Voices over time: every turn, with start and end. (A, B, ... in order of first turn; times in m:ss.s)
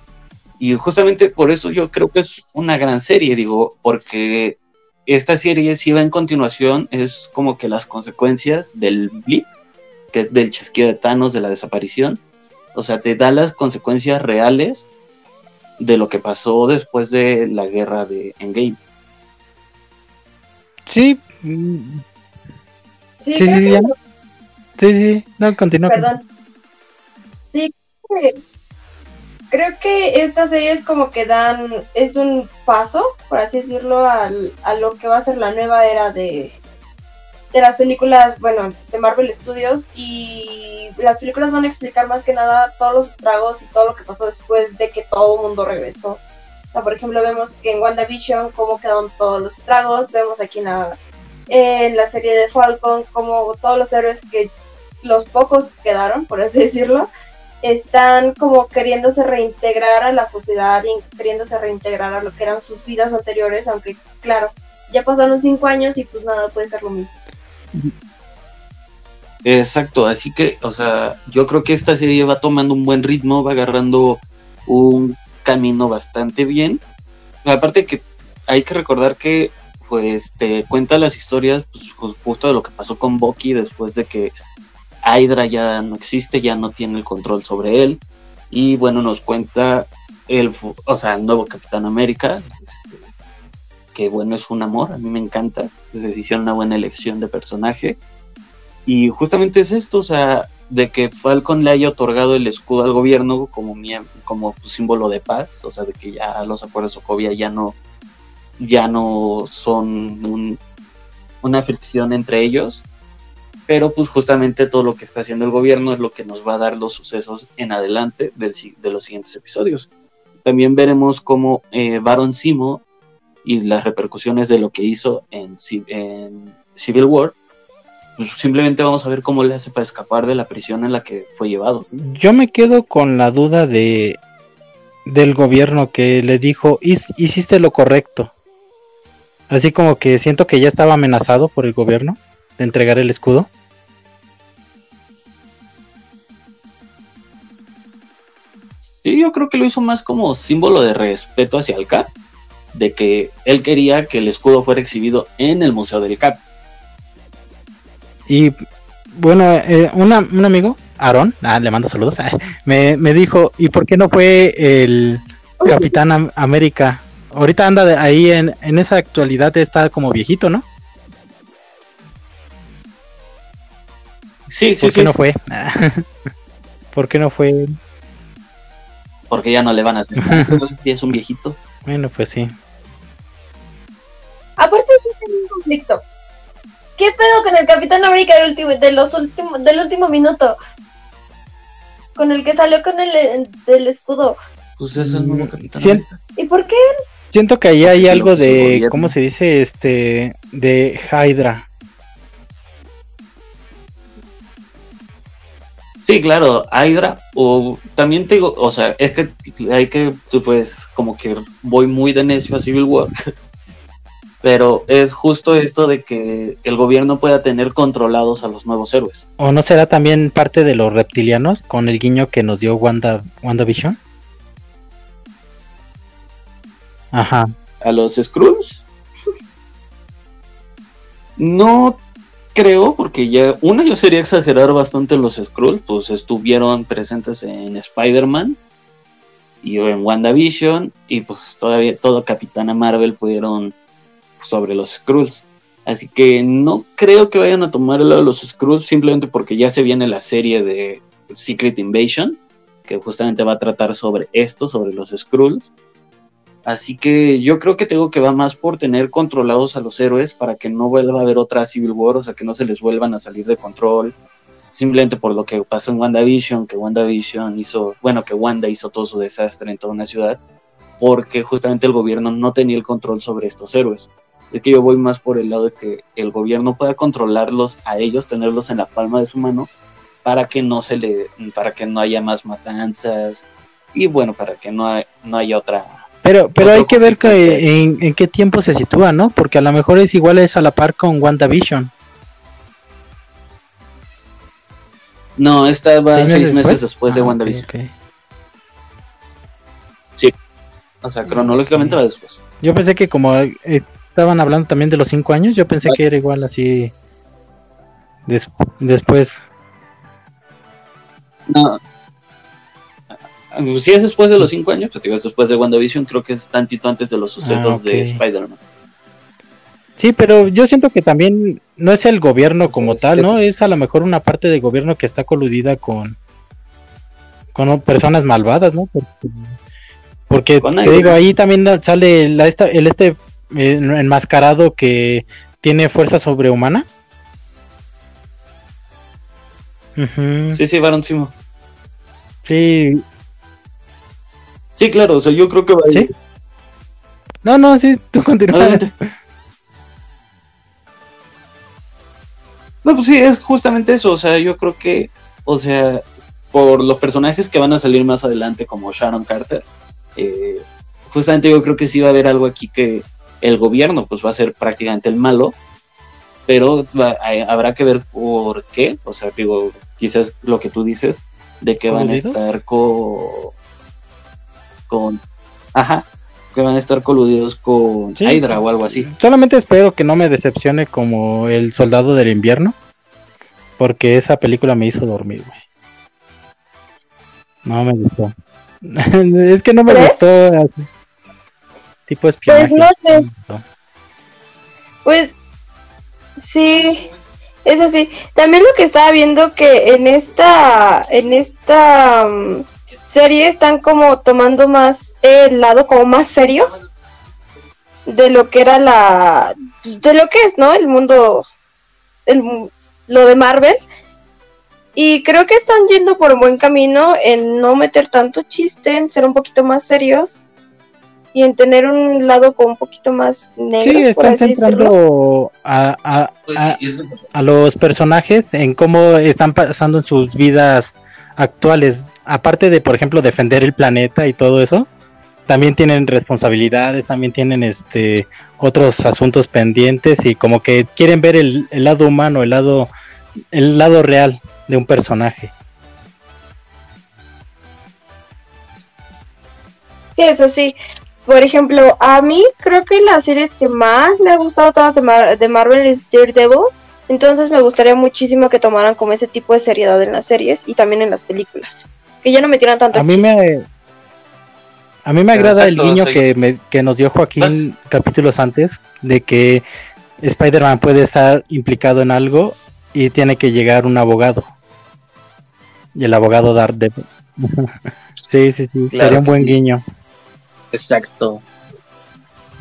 0:00.6-0:09.5 A
0:10.1-0:12.2 A
0:12.7-0:14.9 A
0:15.8-0:18.8 A
0:20.9-0:22.0 B
0:23.2-0:23.9 C
0:23.4-0:23.9 B
0:24.8-0:26.1 B
0:25.9-0:26.2 C
0:27.4-0:28.4 C
0:29.5-0:36.6 C
0:37.5-0:46.2 C
0:46.7-0:51.0 C
0:51.5-0:57.1 C
0:57.6-1:07.1 C
1:09.4-1:16.8 A
1:17.4-1:24.3 A
1:25.0-1:33.0 A
1:33.9-1:38.0 A
1:38.8-1:47.8 A
1:48.6-1:50.6 A
1:51.4-1:52.8 A
1:53.7-1:59.9 A
2:00.4-2:02.8 A
2:03.4-2:07.4 A
2:08.2-2:11.9 A
2:12.0-2:14.2 B
2:15.0-2:18.3 B
2:19.5-2:23.5 B
2:28.8-2:32.1 A
2:32.7-2:36.4 A
2:38.3-2:38.6 B
2:39.1-2:50.6 B
2:54.5-2:55.1 A
2:54.8-2:56.1 B
2:56.9-2:57.8 B
2:59.3-3:01.6 A
3:00.2-3:00.6 B
3:01.8-3:02.5 B
3:04.6-3:06.0 C
3:07.0-3:10.6 C
3:12.2-3:14.4 C
3:14.8-3:16.2 A
3:15.0-3:16.0 B
3:16.4-3:16.8 C
3:17.3-3:21.6 B
3:17.8-3:19.1 A
3:26.0-3:33.1 A
3:34.4-3:39.2 A
3:39.4-3:44.0 B
3:47.1-3:47.5 B
3:47.8-3:48.8 A
3:51.4-3:52.0 A
3:52.5-3:58.6 A
3:59.6-4:03.7 A
4:04.4-4:15.7 A
4:16.6-4:24.1 A
4:24.7-4:30.4 A
4:31.0-4:39.7 A
4:40.2-4:46.0 A
4:46.2-4:51.9 B
4:46.6-4:47.6 A
4:55.4-4:57.7 A
4:56.1-4:57.9 B
5:01.0-5:02.4 A
5:01.2-5:02.0 B
5:02.6-5:06.9 B
5:08.2-5:09.4 B
5:11.5-5:11.8 A
5:13.1-5:18.6 A
5:17.4-5:18.2 B
5:20.0-5:26.2 B
5:22.7-5:23.4 A
5:27.5-5:29.6 B
5:30.3-5:36.9 B
5:30.6-5:31.2 A
5:40.0-5:40.6 B
5:40.5-5:41.3 A
5:42.4-5:43.0 B
5:44.7-5:46.1 A
5:47.4-5:48.8 B
5:48.5-5:48.9 A
5:52.8-6:05.6 A
6:06.5-6:13.5 A
6:11.9-6:12.6 B
6:14.9-6:15.2 A
6:15.7-6:19.1 A
6:18.2-6:22.7 B
6:23.8-6:25.6 B
6:27.6-6:30.8 B
6:29.9-6:30.3 C
6:32.1-6:33.6 B
6:32.5-6:33.2 C
6:35.0-6:35.3 C
6:36.4-6:37.1 C
6:37.6-6:46.7 C
6:48.0-6:51.4 C
6:52.2-6:53.8 C
6:55.0-7:00.4 C
7:01.3-7:04.9 C
7:03.8-7:06.8 B
7:06.5-7:07.2 A
7:07.3-7:14.9 B
7:15.5-7:22.9 B
7:23.5-7:25.5 B
7:30.1-7:43.3 C
7:42.9-7:43.6 B
7:45.0-7:49.6 B
7:45.3-7:46.2 A
7:47.4-7:47.7 A
7:50.2-7:54.5 B
7:55.9-7:59.8 B
7:58.9-7:59.6 A
8:00.7-8:01.4 A